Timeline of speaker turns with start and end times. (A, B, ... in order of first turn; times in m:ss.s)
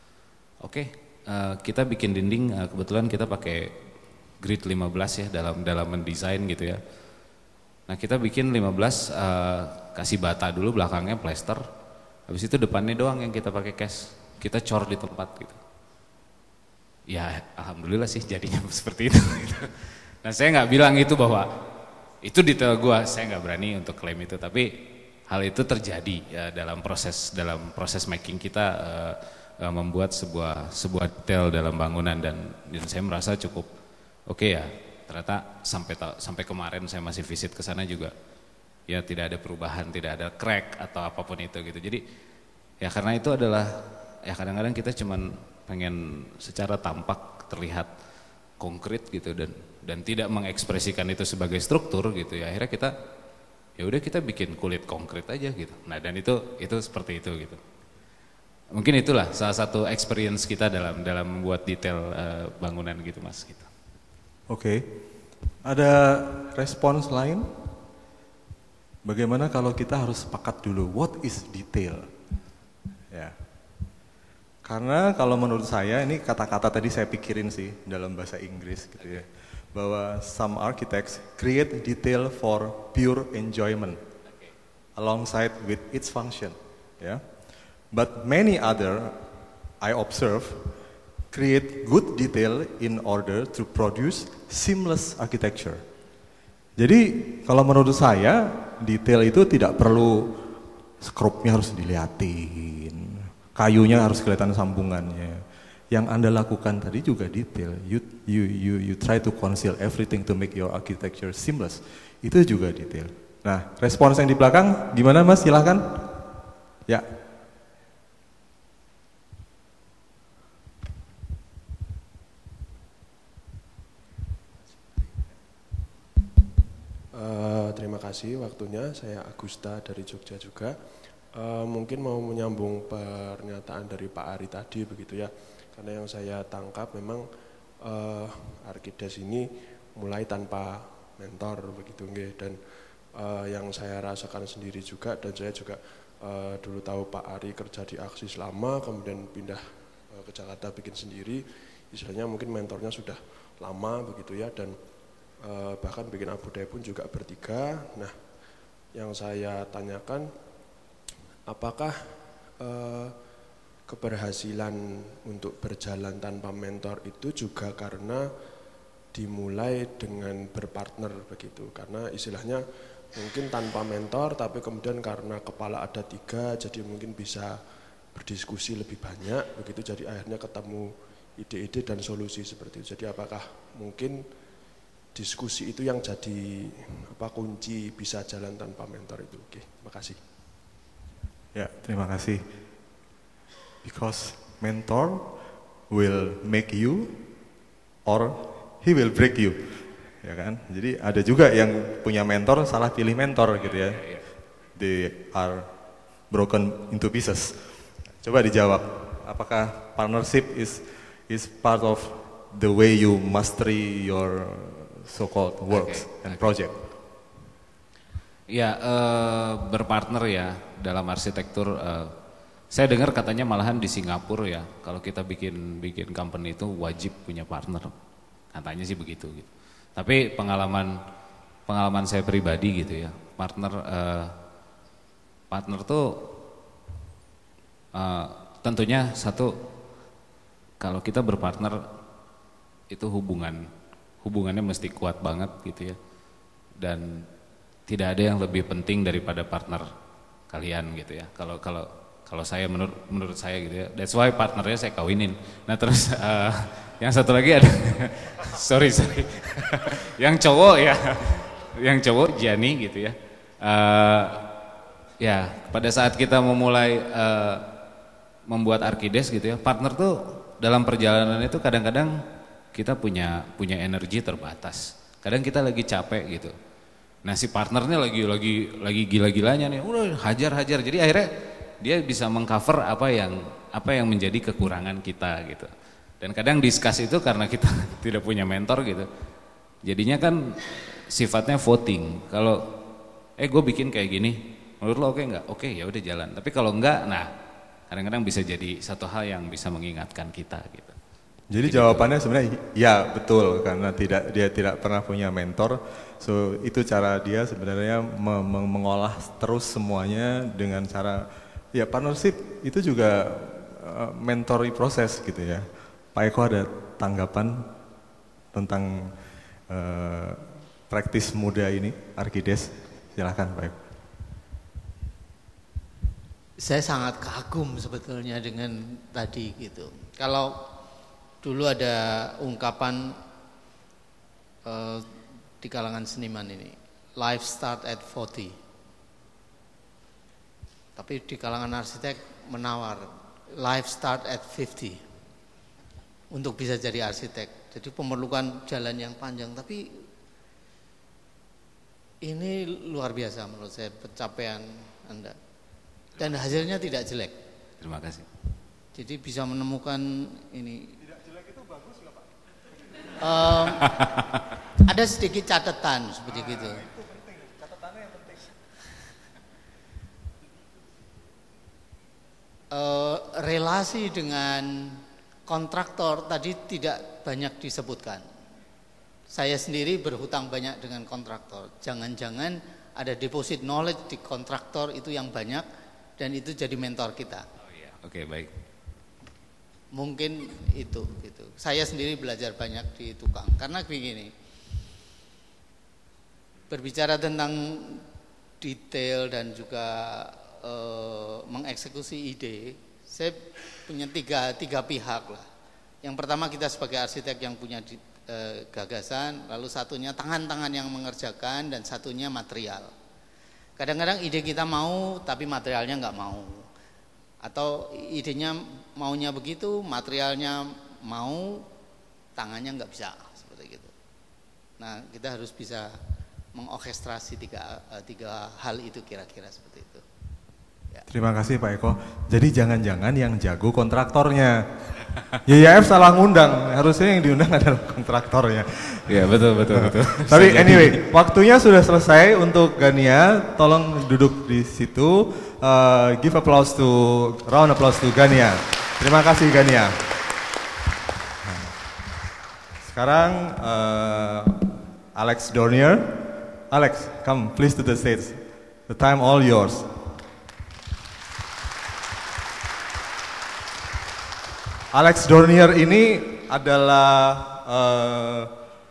0:00.6-0:03.7 A
0:04.4-0:06.8 A
0:07.9-0:11.6 A
0:12.3-0:15.6 A
0:17.1-0:21.5 A
0:22.2-0:33.7 A
0:34.3-0:38.1 A
0:38.9-0:42.0 A
0:42.8-0:47.9 A
0:48.6-0:52.9 A
0:53.8-0:57.6 A
0:58.7-1:03.7 A
1:04.5-1:04.9 B
1:05.6-1:07.5 B
1:09.0-1:12.1 B
1:14.6-1:24.0 B
1:25.0-1:27.3 B
1:27.9-1:29.2 B
1:29.8-1:30.7 B
1:31.3-1:35.8 B
1:36.8-1:40.4 B
1:41.0-1:56.1 B
2:07.1-2:10.8 C
2:11.3-2:17.3 C
2:17.8-2:34.8 C
2:35.3-2:38.1 C
2:38.9-2:40.3 C
2:41.4-2:43.2 C
2:43.8-2:48.3 C
2:49.1-2:57.6 C
2:58.1-3:04.3 C
3:05.1-3:10.2 C
3:11.5-3:12.4 B
3:13.8-3:15.3 B
3:15.9-3:17.2 B
3:18.0-3:24.1 B
3:23.9-3:24.2 A
3:24.8-3:25.7 B
3:26.3-3:27.7 B
3:28.2-3:36.8 B
3:35.7-3:36.5 A
3:38.5-3:42.1 A
3:42.7-3:47.9 A
3:48.5-3:51.0 A
3:51.7-3:54.4 A
3:55.5-3:56.4 A
3:57.9-3:59.6 A
4:00.8-4:01.9 A
4:02.9-4:03.7 A
4:04.2-4:06.0 A
4:06.8-4:07.3 A
4:07.9-4:09.9 A
4:10.5-4:24.5 A
4:25.2-4:27.7 A
4:28.5-4:32.2 A
4:32.7-4:36.5 A
4:37.2-4:45.7 A
4:46.2-4:49.1 A
4:49.8-4:52.7 A
4:53.4-4:57.3 A
4:57.9-5:01.0 A
5:01.5-5:17.7 B
5:01.6-5:02.1 A
5:18.5-5:19.1 B
5:19.7-5:23.8 B
5:26.6-5:30.6 D
5:31.4-5:33.2 D
5:34.6-5:35.1 D
5:35.6-5:38.6 D
5:41.0-5:45.0 D
5:46.3-5:49.9 D
5:52.2-5:55.4 D
5:56.2-5:57.3 D
5:57.8-5:58.3 A
5:58.9-6:01.0 D
6:01.4-6:02.2 B
6:03.2-6:04.1 D
6:03.9-6:04.4 A
6:04.8-6:06.9 D
6:06.7-6:08.4 B
6:12.7-6:18.2 D
6:19.3-6:25.6 D
6:26.2-6:27.4 D
6:27.6-6:28.5 A
6:29.9-6:34.3 D
6:36.7-6:38.0 D
6:38.6-6:45.4 D
6:46.0-6:52.9 D
6:53.8-6:56.6 D
6:57.4-7:01.6 D
7:02.4-7:03.9 D
7:04.8-7:06.0 D
7:06.5-7:10.0 D
7:11.1-7:14.7 B
7:15.4-7:30.1 B
7:19.1-7:21.0 A
7:31.4-7:31.8 B
7:32.8-7:40.1 B
7:44.9-7:48.5 B